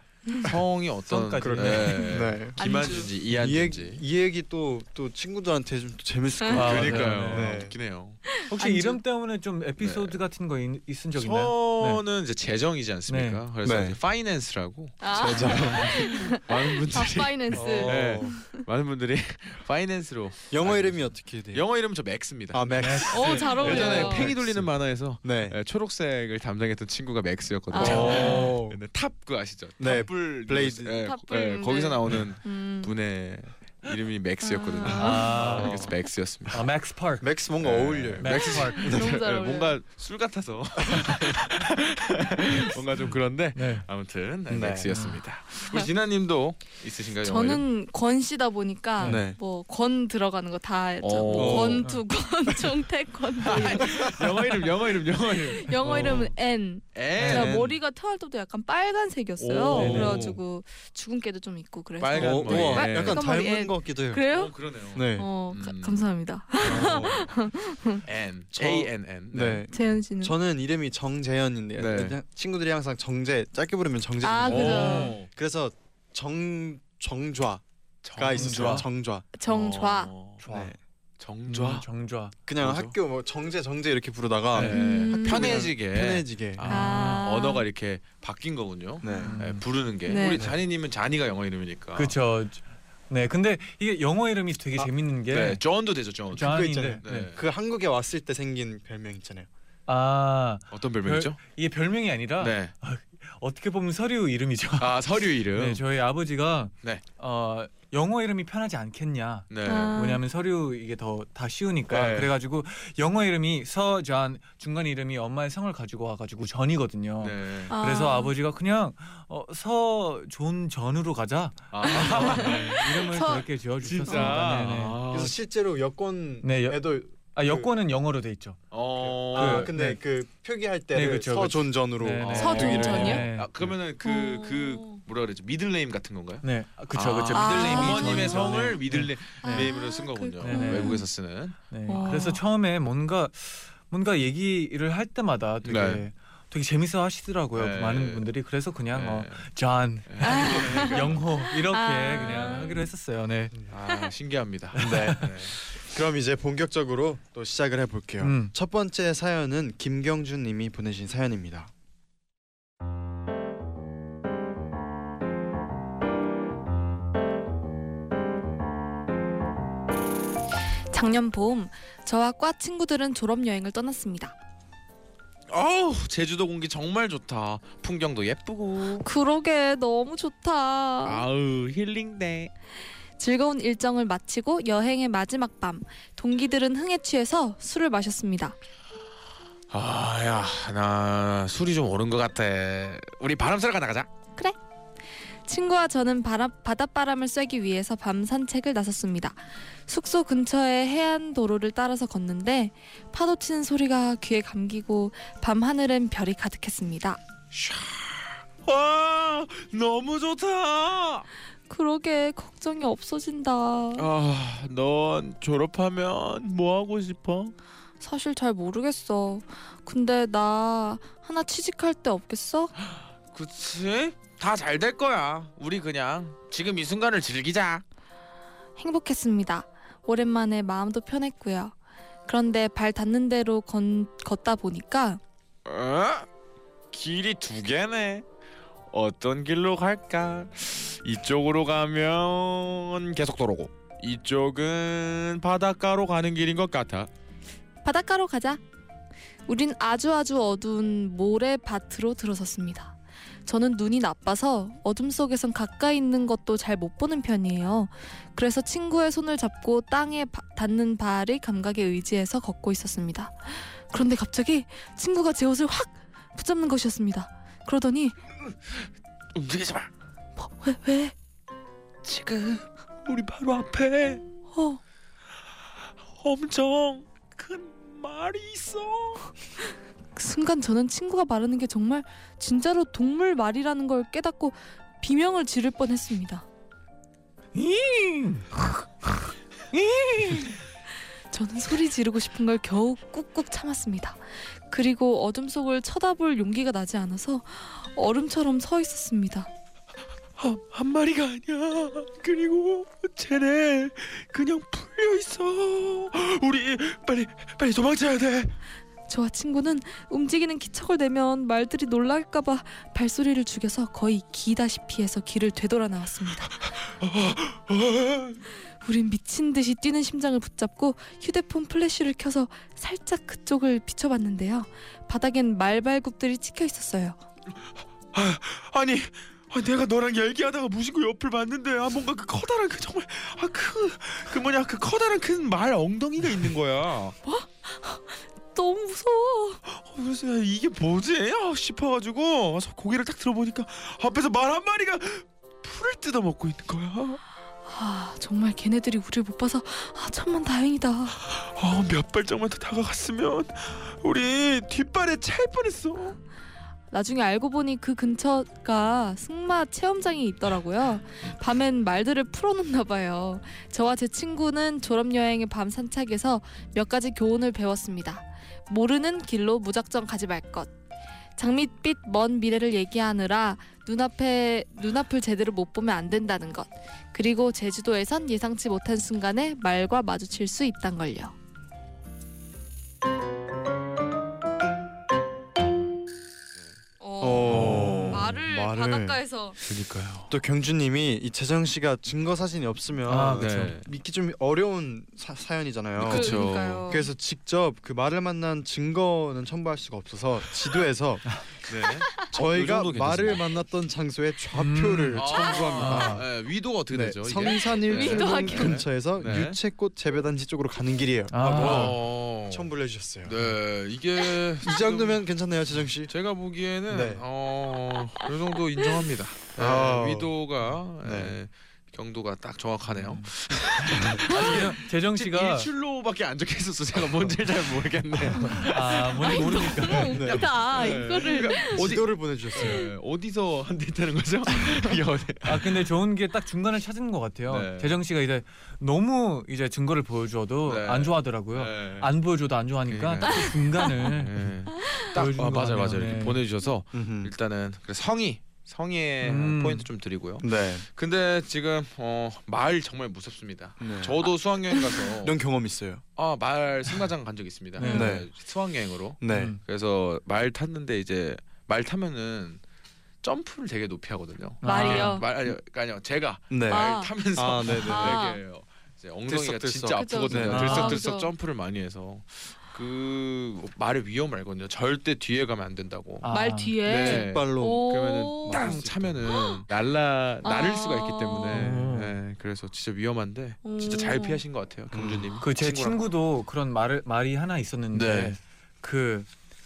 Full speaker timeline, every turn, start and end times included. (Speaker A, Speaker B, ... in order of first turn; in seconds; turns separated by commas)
Speaker A: 0.3-0.5, Speaker B: 0.5-4.0, Speaker C: 1.1-2.0, Speaker D: 1.4-7.8, Speaker A: 2.0-3.1, Speaker A: 6.4-6.7, Speaker C: 6.5-7.5, Speaker B: 6.5-8.2, Speaker C: 8.5-12.0, Speaker A: 8.5-9.0, Speaker B: 9.8-10.2, Speaker B: 11.1-36.7, Speaker C: 13.1-13.4, Speaker D: 13.6-14.0, Speaker A: 15.0-18.6, Speaker D: 15.1-16.0, Speaker D: 17.5-18.4, Speaker D: 20.5-21.7, Speaker D: 22.5-24.7, Speaker C: 22.8-24.1, Speaker A: 23.1-24.3, Speaker D: 25.2-25.6, Speaker A: 27.7-28.5, Speaker D: 27.7-28.8, Speaker C: 27.8-28.5, Speaker D: 29.8-31.0, Speaker A: 31.0-32.9, Speaker A: 34.4-35.4, Speaker C: 35.0-35.8, Speaker D: 35.4-35.9, Speaker C: 36.5-37.3, Speaker D: 37.2-39.2, Speaker B: 37.6-47.6, Speaker C: 38.2-38.9, Speaker A: 38.8-39.8, Speaker C: 43.5-43.9, Speaker D: 44.5-44.9, Speaker C: 44.9-45.2, Speaker A: 47.2-54.7, Speaker D: 49.0-49.4, Speaker B: 51.0-51.8, Speaker D: 51.4-51.9, Speaker B: 53.4-56.3, Speaker A: 55.2-64.5, Speaker B: 57.0-57.6, Speaker D: 57.2-57.8, Speaker B: 59.4-60.4, Speaker C: 59.7-60.2, Speaker D: 59.8-60.3, Speaker B: 62.0-63.2, Speaker D: 62.1-64.2, Speaker B: 64.3-66.1, Speaker D: 64.9-65.3, Speaker A: 65.1-68.0, Speaker B: 66.6-67.1, Speaker D: 66.6-67.3, Speaker B: 68.0-69.6, Speaker D: 68.5-77.6, Speaker A: 69.7-70.3, Speaker B: 71.8-72.2, Speaker A: 74.2-75.2, Speaker B: 74.5-75.3, Speaker C: 74.9-75.2, Speaker B: 78.0-78.8, Speaker D: 78.2-79.3, Speaker C: 78.3-78.9, Speaker A: 79.4-80.1, Speaker B: 79.5-80.4, Speaker C: 80.4-80.7, Speaker D: 80.5-80.8, Speaker B: 81.2-81.8, Speaker C: 81.5-82.3, Speaker D: 82.5-86.7, Speaker B: 82.6-83.0, Speaker C: 84.5-84.8, Speaker B: 84.5-92.2, Speaker A: 84.7-85.6, Speaker A: 86.7-87.7, Speaker C: 86.7-87.2, Speaker D: 89.0-89.4, Speaker C: 89.2-89.6, Speaker A: 90.0-90.4, Speaker D: 90.3-90.6, Speaker C: 92.0-95.6, Speaker B: 95.3-97.4, Speaker C: 96.3-97.3, Speaker D: 96.3-99.5, Speaker C: 99.9-125.0, Speaker B: 100.7-101.4, Speaker B: 102.4-102.7, Speaker B: 104.8-105.8, Speaker B: 109.5-110.0, Speaker A: 109.6-110.2, Speaker B: 111.9-112.3, Speaker B: 117.2-117.7, Speaker A: 117.7-118.3, Speaker B: 121.7-123.1, Speaker A: 121.9-123.5, Speaker B: 123.8-125.4, Speaker A: 124.1-124.4, Speaker D: 125.1-127.7, Speaker C: 126.4-128.6, Speaker B: 128.7-129.7, Speaker D: 129.0-133.7, Speaker C: 129.3-130.0, Speaker C: 130.9-133.5, Speaker B: 132.2-141.6, Speaker A: 132.4-133.2, Speaker A: 134.0-135.0, Speaker C: 136.4-139.7, Speaker A: 137.3-138.4, Speaker A: 139.4-141.1, Speaker C: 140.4-141.0, Speaker C: 141.7-153.5, Speaker A: 141.9-142.4, Speaker B: 145.6-146.1, Speaker B: 147.6-148.3, Speaker B: 148.9-149.5, Speaker B: 150.1-151.2, Speaker A: 150.2-152.8, Speaker B: 152.2-152.6, Speaker B: 153.7-155.6, Speaker D: 154.7-161.7, Speaker C: 154.9-155.2, Speaker C: 158.2-158.5, Speaker A: 170.9-174.3, Speaker B: 175.5-179.1, Speaker A: 179.0-181.3, Speaker B: 181.0-182.5, Speaker A: 183.2-188.6, Speaker B: 189.7-194.1, Speaker A: 195.5-207.2, Speaker B: 207.5-211.3, Speaker A: 211.7-214.1, Speaker B: 213.9-217.6, Speaker A: 218.0-222.7, Speaker B: 223.3-227.8, Speaker A: 228.8-231.7, Speaker A: 232.3-235.2, Speaker B: 235.7-236.3, Speaker B: 236.9-238.2, Speaker B: 238.9-247.1, Speaker A: 247.8-248.6, Speaker A: 249.5-268.2, Speaker B: 269.3-269.9, Speaker A: 270.4-271.1, Speaker B: 272.0-274.2, Speaker A: 274.5-274.8, Speaker B: 276.1-279.3, Speaker A: 280.2-286.5, Speaker C: 287.6-289.1, Speaker C: 289.7-290.6, Speaker A: 291.3-299.5, Speaker B: 300.4-308.5, Speaker A: 309.1-316.6, Speaker B: 317.0-318.4, Speaker A: 318.8-327.2, Speaker B: 328.1-337.2, Speaker A: 337.3-339.6, Speaker B: 339.7-347.2, Speaker A: 347.7-351.2, Speaker B: 351.2-356.2, Speaker A: 356.9-370.7, Speaker A: 371.4-381.4, Speaker A: 387.0-389.6, Speaker D: 387.2-389.2, Speaker B: 387.4-388.4, Speaker B: 389.6-390.3, Speaker D: 390.3-401.6, Speaker C: 393.1-393.8, Speaker B: 393.1-393.9, Speaker B: 396.0-397.0, Speaker A: 396.1-397.1, Speaker B: 401.7-403.4, Speaker D: 402.1-406.3, Speaker C: 404.5-405.3, Speaker B: 405.1-409.6, Speaker A: 405.4-405.7, Speaker C: 405.8-406.1, Speaker D: 406.9-413.4, Speaker A: 407.5-408.8, Speaker C: 411.3-412.0, Speaker B: 411.4-412.7, Speaker B: 413.2-415.2, Speaker D: 414.6-416.1, Speaker B: 416.1-435.7, Speaker D: 416.9-417.2, Speaker D: 419.6-420.4, Speaker D: 421.0-421.4, Speaker C: 422.9-423.3, Speaker D: 424.0-424.2, Speaker C: 424.1-425.7, Speaker C: 428.6-430.2, Speaker A: 429.2-431.8, Speaker D: 430.1-431.0, Speaker D: 431.5-432.9, Speaker A: 432.6-432.9, Speaker A: 434.5-434.9, Speaker C: 435.4-444.5, Speaker B: 437.5-438.0, Speaker B: 440.6-442.1, Speaker B: 442.9-455.4, Speaker A: 443.3-443.5, Speaker C: 445.1-446.4, Speaker D: 446.9-447.3, Speaker C: 449.2-449.9, Speaker D: 450.4-450.9, Speaker D: 453.8-454.3, Speaker D: 455.2-456.0, Speaker B: 456.2-462.6, Speaker C: 457.8-458.1, Speaker A: 457.8-458.1, Speaker D: 457.9-458.3, Speaker D: 459.2-459.6, Speaker C: 459.3-459.6, Speaker B: 463.2-476.3, Speaker C: 464.6-465.2, Speaker A: 464.6-465.3, Speaker D: 466.5-468.2, Speaker A: 466.7-467.1, Speaker A: 467.7-468.4, Speaker D: 469.3-470.9, Speaker A: 469.9-471.3, Speaker C: 470.4-471.0, Speaker C: 476.2-476.7, Speaker A: 476.3-479.6, Speaker D: 476.8-477.9, Speaker B: 476.8-486.1, Speaker D: 478.5-479.4, Speaker A: 480.4-481.7, Speaker C: 481.5-482.2, Speaker A: 483.6-484.4, Speaker D: 484.9-485.3, Speaker C: 485.4-489.3, Speaker B: 487.9-488.4